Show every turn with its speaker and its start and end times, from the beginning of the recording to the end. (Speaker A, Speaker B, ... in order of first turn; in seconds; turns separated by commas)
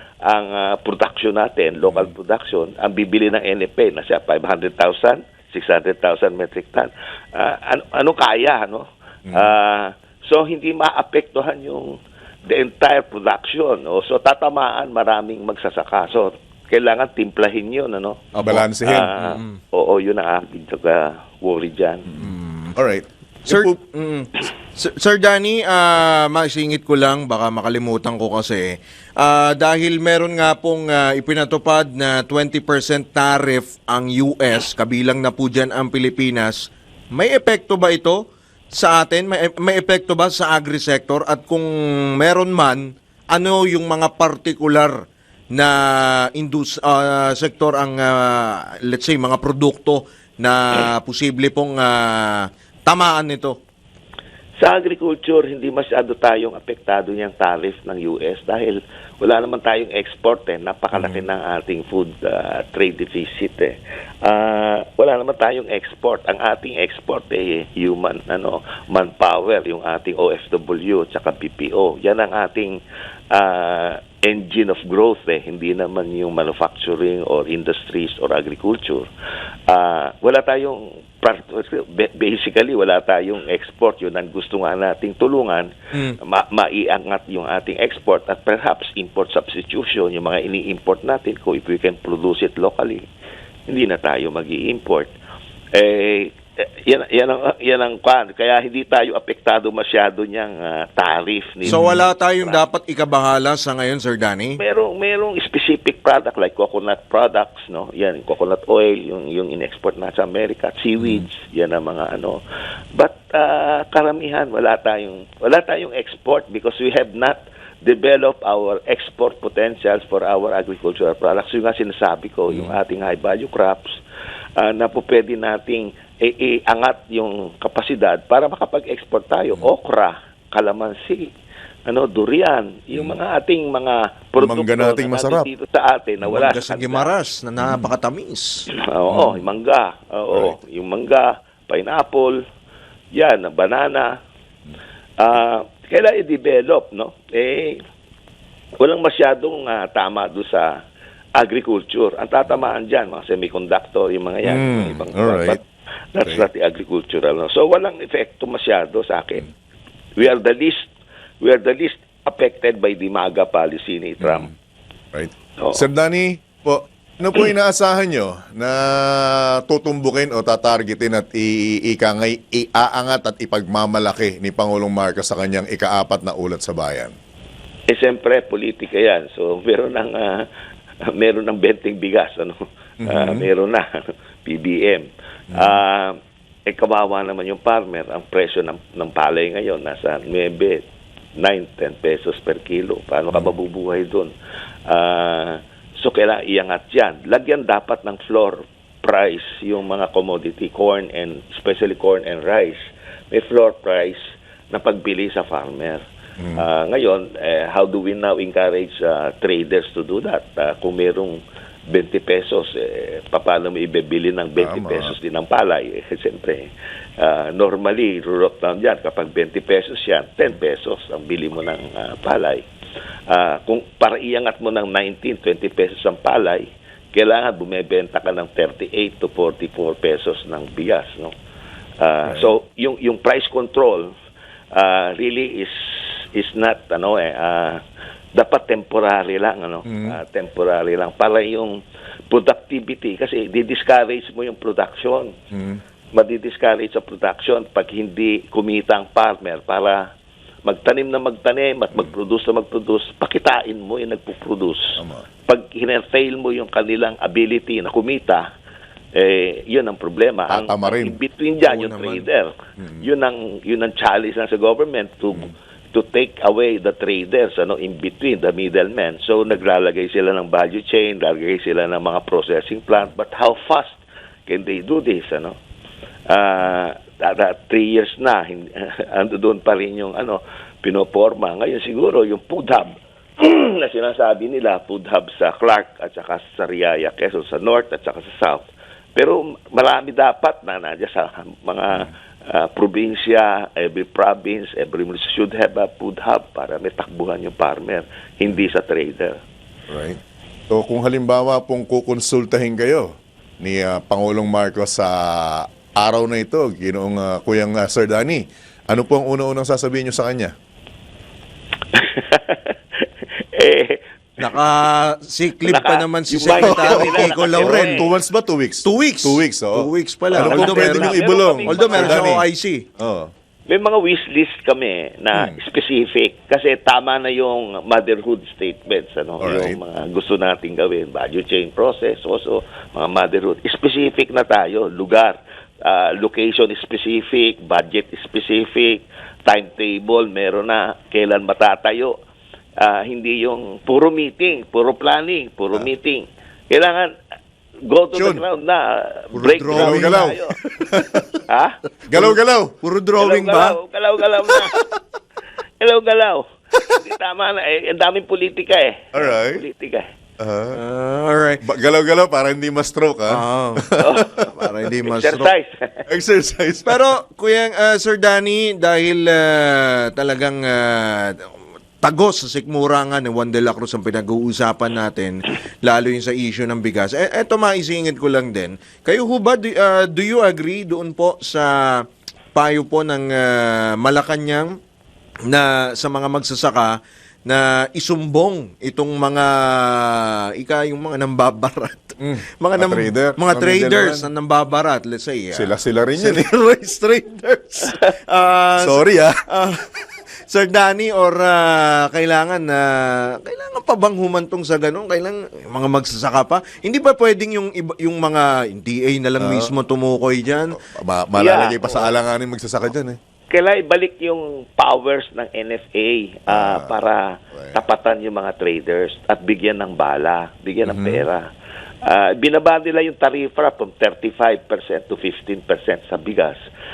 Speaker A: 0.2-22.1, Speaker B: 1.8-2.1, Speaker C: 18.4-18.6, Speaker B: 18.4-19.2, Speaker C: 19.2-19.6, Speaker B: 22.1-23.8, Speaker C: 22.2-22.8, Speaker C: 23.5-53.6, Speaker A: 54.6-79.1, Speaker B: 60.9-61.3, Speaker A: 79.7-93.1, Speaker A: 93.7-95.1, Speaker A: 95.7-102.6, Speaker B: 101.7-102.0, Speaker C: 101.7-104.6, Speaker A: 104.6-112.4, Speaker B: 111.0-111.3, Speaker A: 112.9-124.0, Speaker B: 122.5-122.8, Speaker A: 124.6-131.3, Speaker A: 131.9-137.1, Speaker B: 132.9-133.2, Speaker B: 134.4-135.5, Speaker C: 136.3-138.7, Speaker B: 137.6-137.9, Speaker A: 138.8-142.4, Speaker B: 139.1-139.5, Speaker B: 140.3-140.6, Speaker A: 143.1-144.2, Speaker A: 145.2-147.8, Speaker A: 148.8-150.8, Speaker A: 151.4-155.6, Speaker B: 154.4-155.6, Speaker A: 156.1-159.4, Speaker B: 156.2-156.5, Speaker A: 160.2-160.9, Speaker A: 161.4-164.5, Speaker B: 164.2-164.5, Speaker B: 165.1-177.1, Speaker A: 165.6-165.9, Speaker A: 177.9-180.5, Speaker A: 181.1-186.2, Speaker B: 183.0-183.5, Speaker B: 185.5-185.8, Speaker A: 186.7-190.8, Speaker A: 191.4-194.3, Speaker A: 194.9-202.8, Speaker A: 203.3-204.2, Speaker A: 204.7-206.0, Speaker B: 206.4-206.6, Speaker A: 206.6-216.7, Speaker B: 214.6-215.2, Speaker A: 217.2-222.7, Speaker A: 223.3-231.3, Speaker A: 232.0-234.1, Speaker B: 232.2-232.5, Speaker A: 234.7-237.8, Speaker A: 238.3-245.4, Speaker B: 239.9-240.2, Speaker B: 245.5-245.8, Speaker A: 246.1-250.1, Speaker A: 250.6-258.4, Speaker B: 255.0-255.2, Speaker A: 259.1-275.6, Speaker B: 260.5-261.2, Speaker C: 261.6-262.3, Speaker B: 262.8-263.1, Speaker A: 276.3-299.4, Speaker B: 299.9-300.2, Speaker B: 300.7-310.5, Speaker A: 311.9-314.0, Speaker C: 314.4-318.0, Speaker A: 315.6-318.1, Speaker B: 316.6-322.4, Speaker C: 318.8-322.9, Speaker A: 320.4-322.4, Speaker B: 323.0-323.3, Speaker A: 323.7-342.2, Speaker B: 325.3-325.6, Speaker B: 329.4-329.8, Speaker A: 342.8-347.1, Speaker A: 347.9-350.6, Speaker B: 348.1-348.4, Speaker C: 349.3-351.4, Speaker B: 349.7-351.2, Speaker A: 351.5-351.8, Speaker B: 352.1-352.8, Speaker C: 352.1-353.8, Speaker A: 353.2-354.8, Speaker A: 355.8-356.5, Speaker A: 357.0-360.1, Speaker B: 359.1-359.6, Speaker B: 360.4-360.8, Speaker C: 360.8-361.6, Speaker B: 361.6-364.5, Speaker C: 363.3-363.9, Speaker A: 364.0-366.1, Speaker C: 364.5-365.5, Speaker B: 366.1-367.1, Speaker C: 366.9-384.8, Speaker C: 385.5-410.8, Speaker B: 392.2-394.3, Speaker B: 395.5-396.5, Speaker B: 398.8-399.4, Speaker B: 409.4-409.7, Speaker B: 410.7-413.2, Speaker A: 411.4-412.1, Speaker A: 413.5-421.4, Speaker B: 416.5-417.0, Speaker B: 417.5-417.8, Speaker B: 420.8-421.3, Speaker A: 422.1-426.6